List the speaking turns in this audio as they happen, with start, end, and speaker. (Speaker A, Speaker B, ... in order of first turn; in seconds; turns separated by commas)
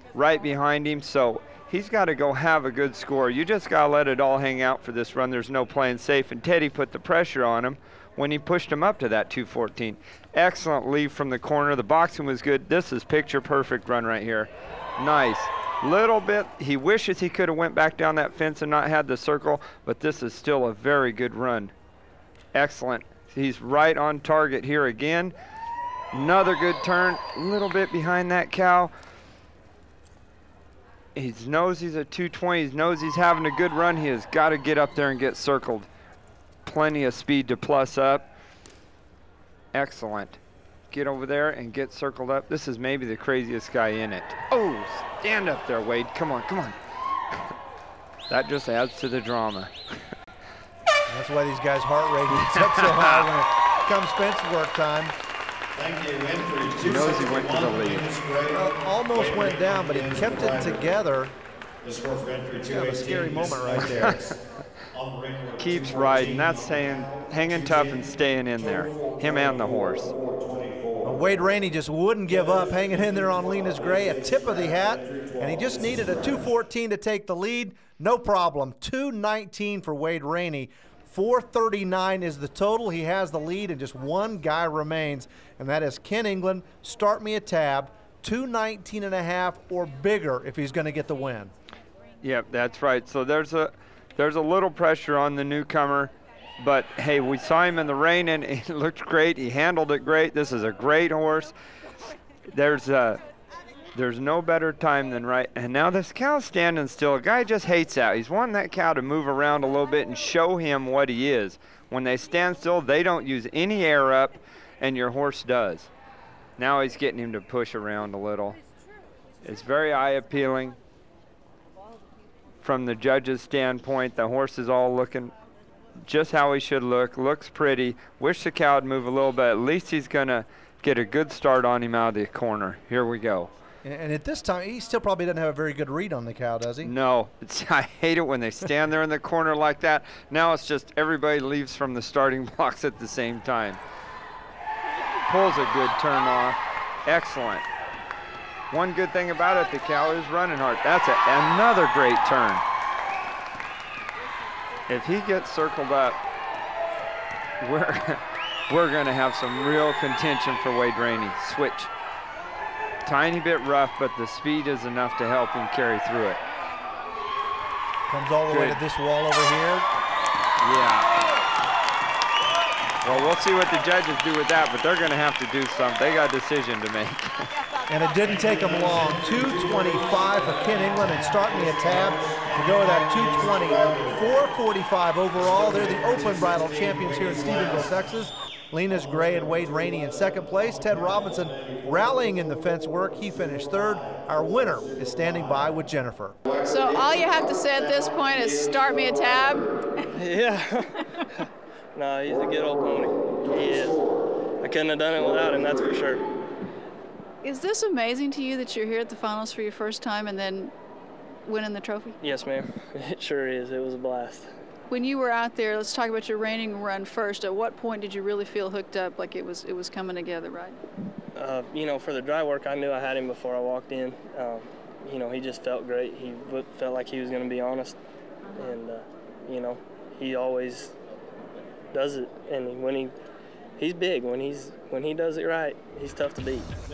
Speaker A: 0.1-21.7, Speaker A: 22.5-25.3, Speaker A: 26.1-28.9, Speaker A: 31.1-35.9, Speaker A: 36.6-38.3, Speaker A: 39.7-46.8, Speaker A: 48.3-50.0, Speaker B: 51.1-55.1, Speaker A: 52.3-53.3, Speaker C: 55.8-56.8, Speaker A: 56.8-58.2, Speaker B: 58.5-61.3, Speaker C: 61.9-62.5, Speaker B: 62.5-64.3, Speaker A: 63.9-64.2, Speaker C: 65.0-65.5, Speaker A: 65.5-70.1, Speaker C: 70.3-70.8, Speaker B: 71.0-91.5, Speaker A: 92.2-101.5, Speaker A: 102.5-103.2, Speaker A: 103.9-115.9, Speaker A: 116.6-118.6, Speaker A: 119.4-120.8, Speaker A: 122.6-125.3, Speaker A: 126.0-133.5, Speaker B: 133.8-136.9, Speaker A: 136.8-143.8, Speaker A: 145.3-147.6, Speaker A: 148.7-152.6, Speaker A: 154.9-156.2, Speaker A: 157.6-161.9, Speaker A: 163.0-166.4, Speaker B: 168.1-169.9, Speaker A: 168.5-168.8, Speaker A: 170.6-171.1, Speaker A: 173.0-177.5, Speaker B: 177.8-196.4, Speaker D: 196.6-200.1, Speaker E: 200.1-204.1, Speaker E: 204.6-206.2, Speaker D: 207.4-210.7, Speaker D: 211.4-212.2, Speaker E: 212.2-214.5, Speaker D: 214.9-220.8, Speaker E: 221.3-228.0, Speaker E: 228.5-230.9, Speaker E: 231.9-233.1, Speaker E: 233.8-236.7